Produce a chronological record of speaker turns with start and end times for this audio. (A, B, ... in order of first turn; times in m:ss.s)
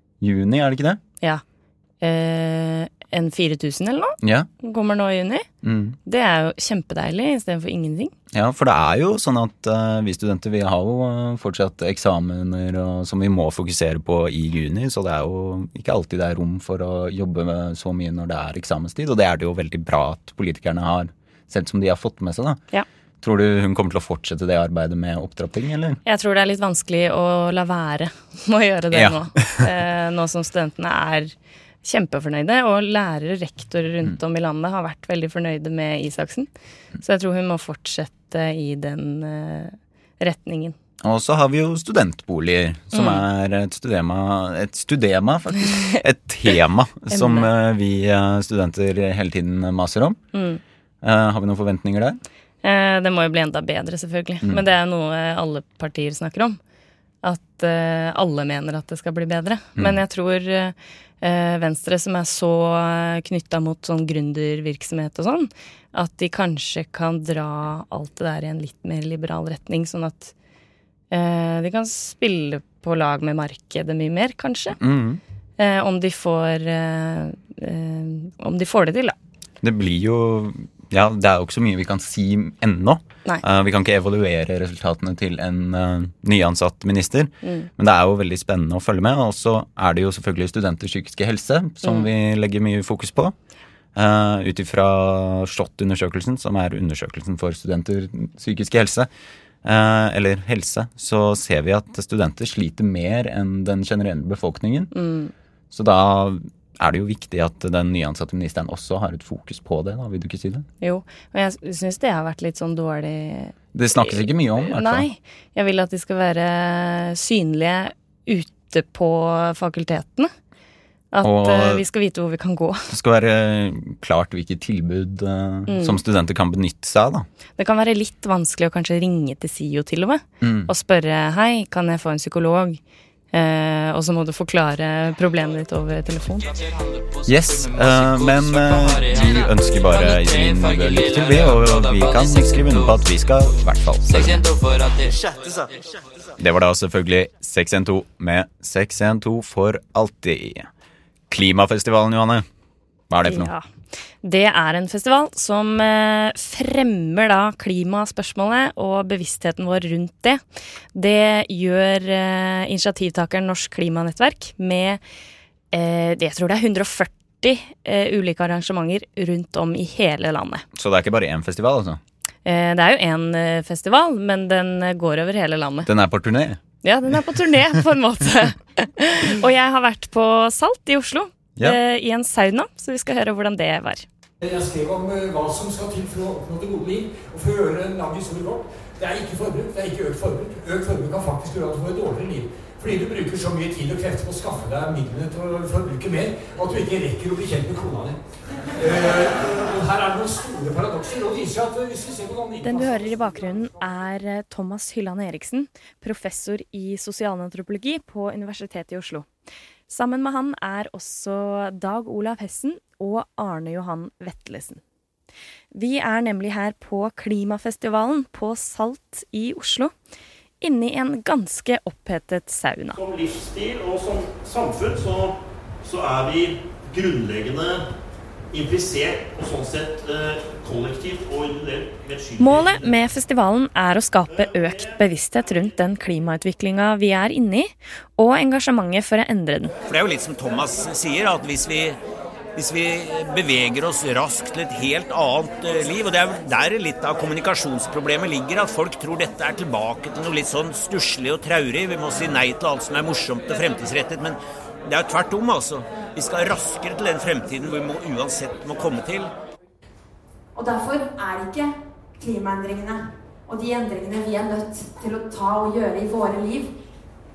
0:00.2-0:01.0 A
0:02.0-0:05.4 B
0:04.2-0:04.5 A
0:05.6-0:06.0 A
0:06.0-0:08.1 B
0:08.3-0:22.6 A
0:23.2-0:26.0 A
0:26.0-0:31.3 B
0:28.9-0:29.6 A
0:31.8-0:36.5 B
0:37.0-0:40.7 B
0:41.0-0:50.2 A
0:42.9-0:43.2 B
0:47.1-0:47.5 B
0:50.3-0:50.6 B
0:51.0-0:52.2 A
0:52.6-0:56.6 B
0:57.2-1:10.3 B
1:11.1-1:14.8 B
1:14.8-1:15.2 A
1:15.6-1:19.2 B
1:19.6-1:33.3 A
1:27.4-1:27.7 B
1:33.9-1:39.1 A
1:39.6-1:44.9 A
1:44.9-1:45.3 B
1:45.7-1:50.7 A
1:50.8-2:00.3 B
1:53.7-1:55.0 A
2:01.1-2:02.9 B
2:01.2-2:01.8 A
2:02.9-2:07.3 A
2:05.7-2:06.0 B
2:07.6-2:12.8 B
2:10.4-2:10.7 A
2:13.3-2:16.5 B
2:17.2-2:24.5 A
2:26.4-2:30.7 A
2:31.3-2:32.4 A
2:33.1-2:33.5 A
2:33.2-2:33.7 B
2:34.2-2:40.4 B
2:40.9-2:45.0 B
2:45.7-2:50.6 B
2:50.7-2:52.0 A
2:52.4-2:55.9 B
2:55.8-2:56.6 A
2:56.8-3:04.0 B
3:04.4-3:18.2 C
3:18.7-3:23.4 C
3:22.6-3:29.3 B
3:29.9-3:34.8 B
3:35.7-3:39.9 B
3:40.6-3:43.0 B
3:43.0-3:45.3 D
3:45.9-3:47.7 D
3:48.5-3:52.1 D
3:52.4-3:59.7 B
3:59.8-4:02.0 E
4:02.6-4:19.3 E
4:20.5-4:26.7 F